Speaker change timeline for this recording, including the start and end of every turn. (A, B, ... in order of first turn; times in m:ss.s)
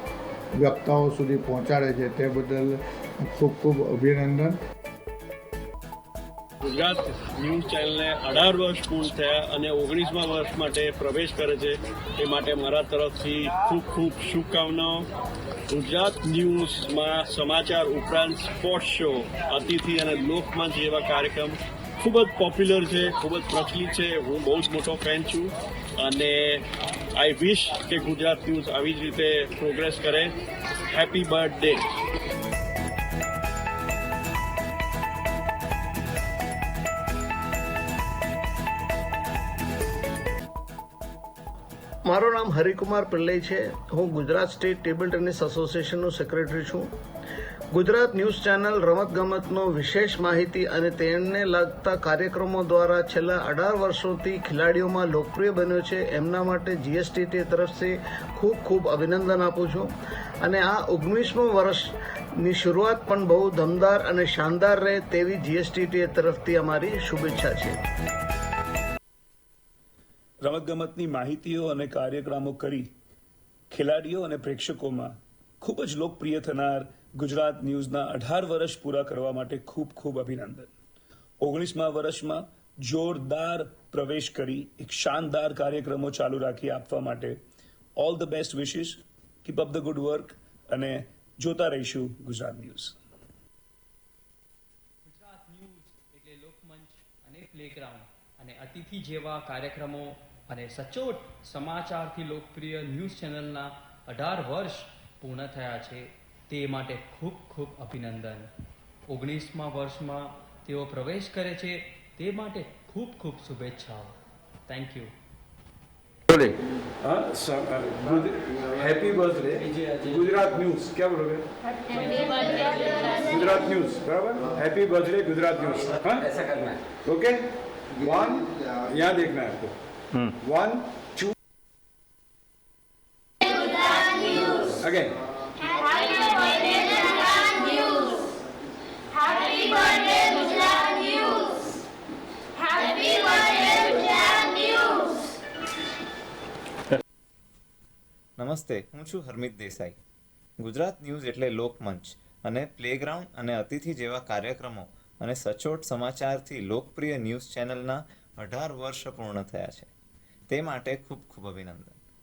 0:00.6-0:04.6 A
0:06.6-0:15.1 B
0:15.7-0:30.3 B
0:30.9-0:31.8 B
0:42.0-0:46.9 C
0:47.7-1:07.8 C
1:10.4-1:12.9 D
1:13.7-1:20.7 D
1:21.4-1:27.4 D
1:28.0-1:33.0 D
1:35.0-1:48.5 E
1:49.1-1:54.1 E
1:54.7-1:55.1 E
1:57.0-2:01.4 F
2:03.0-2:06.3 F
2:07.0-2:09.8 F
2:10.3-2:11.3 F
2:14.5-2:15.2 F
2:28.4-2:30.0 G
2:30.6-2:39.9 G
2:40.5-2:42.0 G